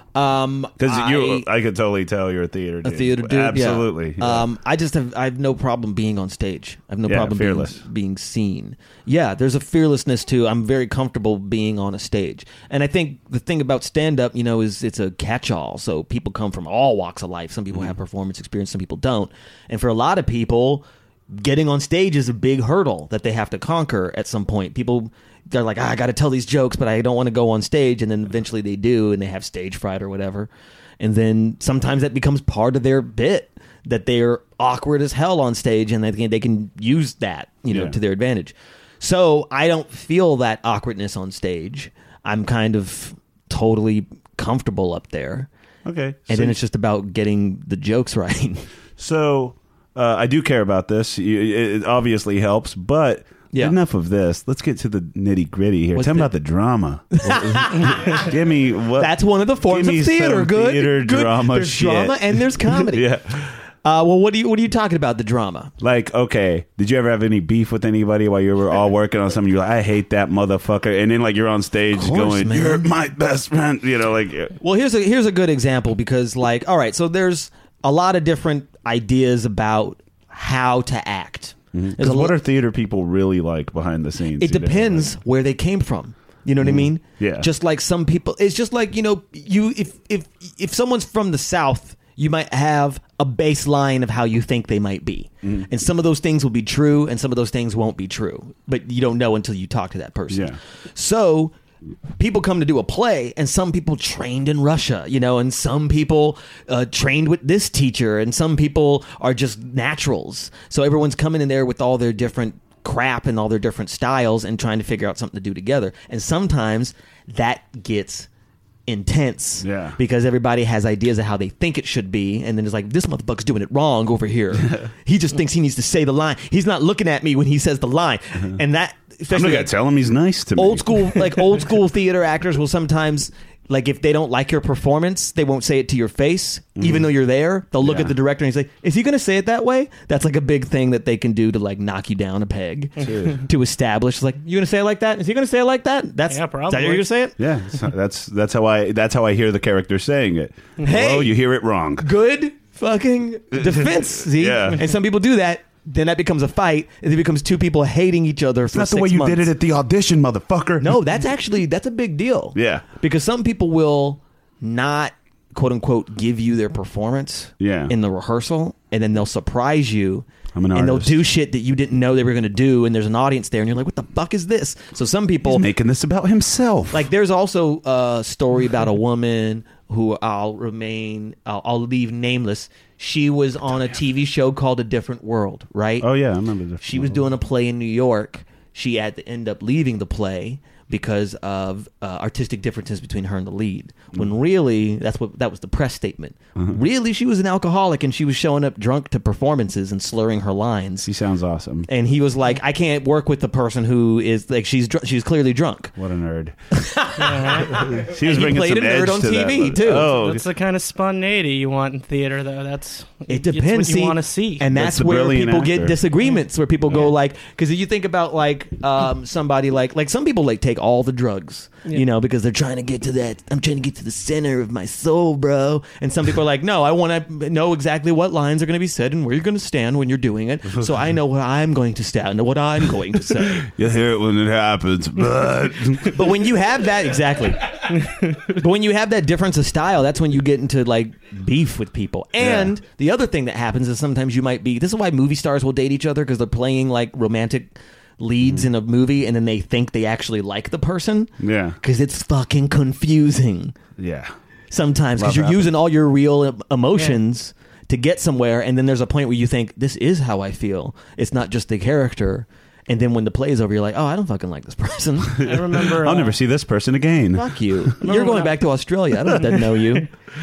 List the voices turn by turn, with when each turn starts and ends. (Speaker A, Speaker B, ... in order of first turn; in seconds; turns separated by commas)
Speaker A: 0.1-1.5, Speaker B: 0.8-4.5, Speaker A: 2.8-30.5, Speaker B: 7.1-7.8, Speaker A: 31.0-45.5, Speaker B: 37.7-37.9, Speaker B: 45.8-46.6, Speaker A: 46.3-48.6, Speaker B: 49.0-63.5, Speaker A: 53.5-53.8, Speaker A: 55.9-56.3, Speaker A: 57.1-58.2, Speaker A: 59.0-63.1, Speaker A: 63.8-65.7, Speaker B: 65.8-74.5, Speaker A: 71.9-72.9, Speaker A: 74.6-82.3, Speaker B: 81.7-85.1, Speaker A: 84.4-101.5, Speaker B: 86.6-87.5, Speaker B: 100.3-100.6, Speaker A: 102.2-118.3, Speaker A: 118.9-129.7, Speaker B: 119.6-120.0, Speaker B: 129.3-131.2, Speaker A: 130.6-147.3, Speaker B: 136.8-137.1, Speaker B: 137.8-138.1, Speaker B: 143.0-143.4, Speaker C: 146.3-147.1, Speaker B: 147.4-152.1, Speaker A: 150.8-151.3, Speaker A: 152.0-159.5, Speaker B: 153.5-154.8, Speaker B: 158.7-161.0, Speaker A: 160.8-175.7, Speaker B: 162.5-162.8, Speaker B: 167.6-167.9, Speaker B: 170.5-171.2, Speaker B: 175.4-177.1, Speaker A: 176.9-186.1, Speaker B: 186.0-187.2, Speaker A: 186.8-201.1, Speaker B: 201.0-201.9, Speaker A: 201.9-205.9, Speaker B: 205.9-206.6, Speaker A: 206.7-210.1, Speaker C: 207.2-207.8, Speaker B: 207.7-210.4, Speaker C: 210.1-214.7, Speaker A: 213.3-233.7, Speaker B: 214.7-216.0, Speaker B: 233.4-236.3, Speaker A: 236.1-253.8, Speaker C: 237.9-238.4, Speaker B: 242.4-242.7, Speaker B: 248.4-248.7, Speaker B: 251.4-251.8, Speaker B: 254.0-254.3, Speaker A: 254.7-265.5, Speaker B: 255.2-255.7, Speaker B: 265.4-268.0, Speaker C: 265.4-266.4, Speaker A: 267.3-270.1, Speaker C: 268.0-268.6, Speaker C: 269.4-269.8